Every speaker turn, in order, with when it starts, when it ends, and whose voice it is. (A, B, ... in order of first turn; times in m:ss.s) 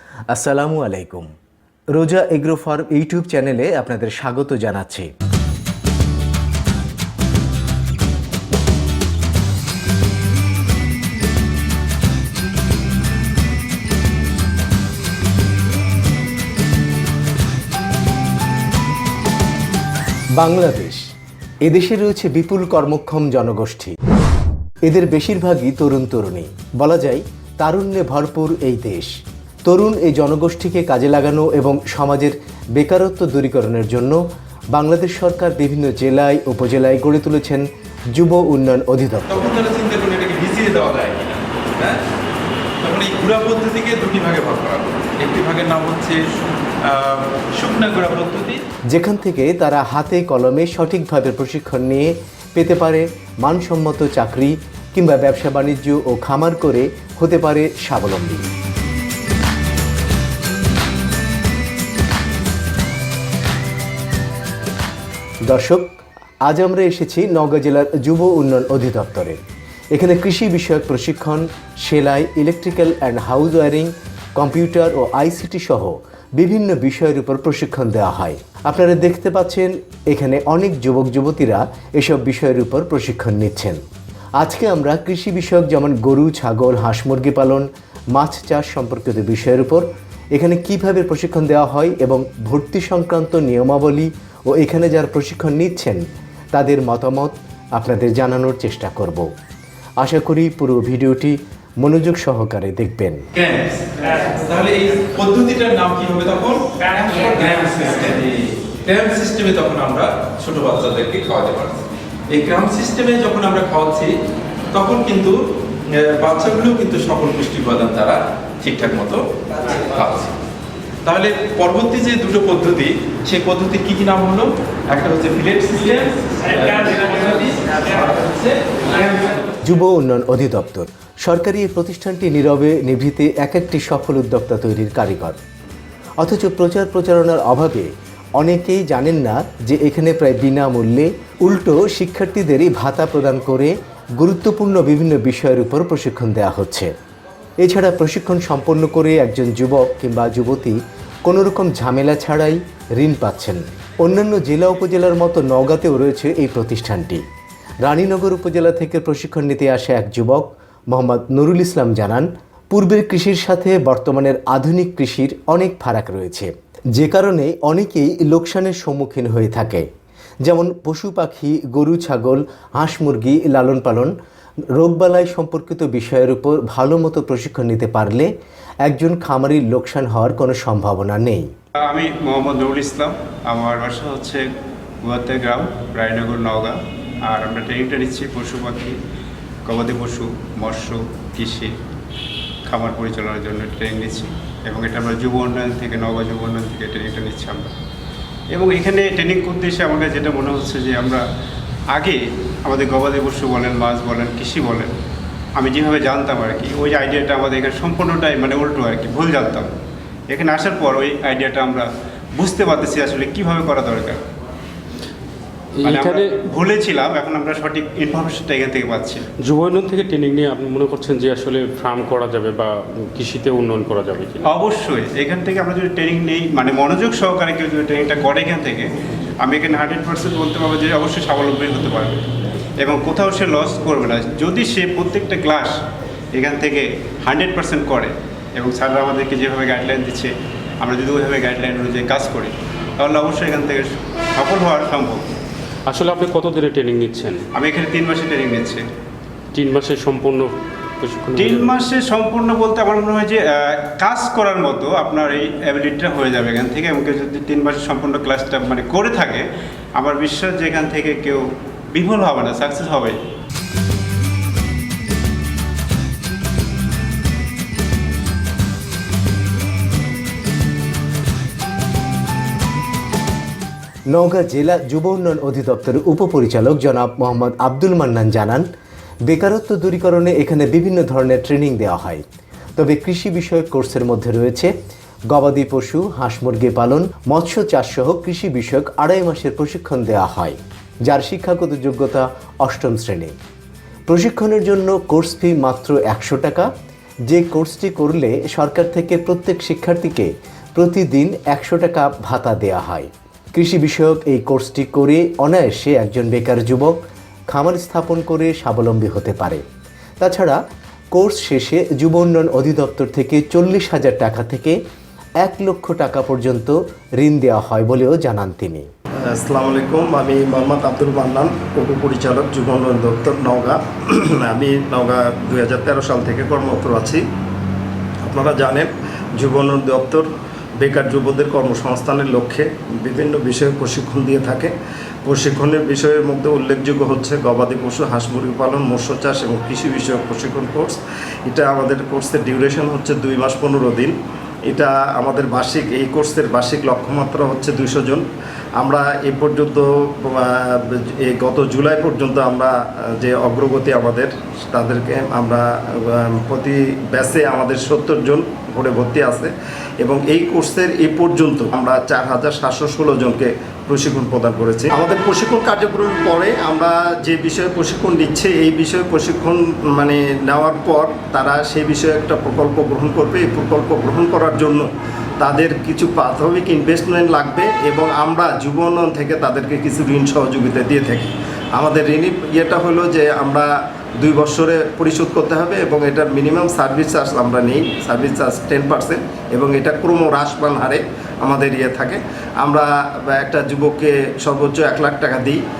0:00.3-0:01.3 A
0:02.0-0:05.1 A
0:20.4-0:21.0 A
0:21.6-0:24.0 A
0:24.9-0:29.1 A
0:29.7-0:34.2 A
0:34.7-0:39.5 A
0:39.3-0:42.0 B
0:42.8-0:46.2 B
0:46.9-0:48.6 B
0:48.9-0:58.5 A
1:05.5-1:05.9 A
1:06.5-1:09.4 A
1:09.9-1:23.8 A
1:24.4-1:39.3 A
1:40.0-1:43.2 A
1:43.4-1:43.8 B
1:44.4-1:46.6 B
1:47.2-1:51.8 B
1:52.4-1:54.1 B
1:54.7-1:55.4 B
1:56.0-1:59.2 B
2:00.0-2:00.3 B
2:01.1-2:09.3 B
2:09.6-2:15.4 A
2:16.2-2:26.9 A
2:27.6-2:37.2 A
2:37.8-2:49.9 A
2:50.4-2:54.1 A
2:54.8-2:58.3 A
2:58.8-3:01.5 A
3:01.9-3:04.5 C
3:05.0-3:09.0 C
3:09.6-3:11.7 C
3:12.7-3:17.7 C
3:18.5-3:21.2 C
3:21.9-3:24.9 C
3:25.6-3:29.7 C
3:30.3-3:34.2 C
3:35.8-3:36.3 D
3:35.8-3:39.3 C
3:39.4-3:44.4 D
3:44.5-3:48.9 C
3:49.4-3:52.2 C
3:52.8-3:55.7 C
3:56.3-4:05.3 C
4:05.9-4:07.4 D
4:07.5-4:08.8 C
4:09.5-4:11.8 D
4:11.4-4:23.2 C
4:34.1-4:38.7 A
4:39.3-4:42.2 A
4:42.8-4:44.7 A
4:45.3-4:53.4 A
4:54.1-4:56.7 A
4:57.3-5:07.0 A
5:07.5-5:09.6 A
5:10.2-5:10.6 A
5:11.1-5:14.8 A
5:15.4-5:18.9 A
5:19.3-5:27.2 E
5:28.2-5:30.3 E
5:30.8-5:34.7 E
5:35.3-5:44.1 E
5:44.7-5:48.2 E
5:48.8-6:14.9 E
6:15.4-6:35.6 E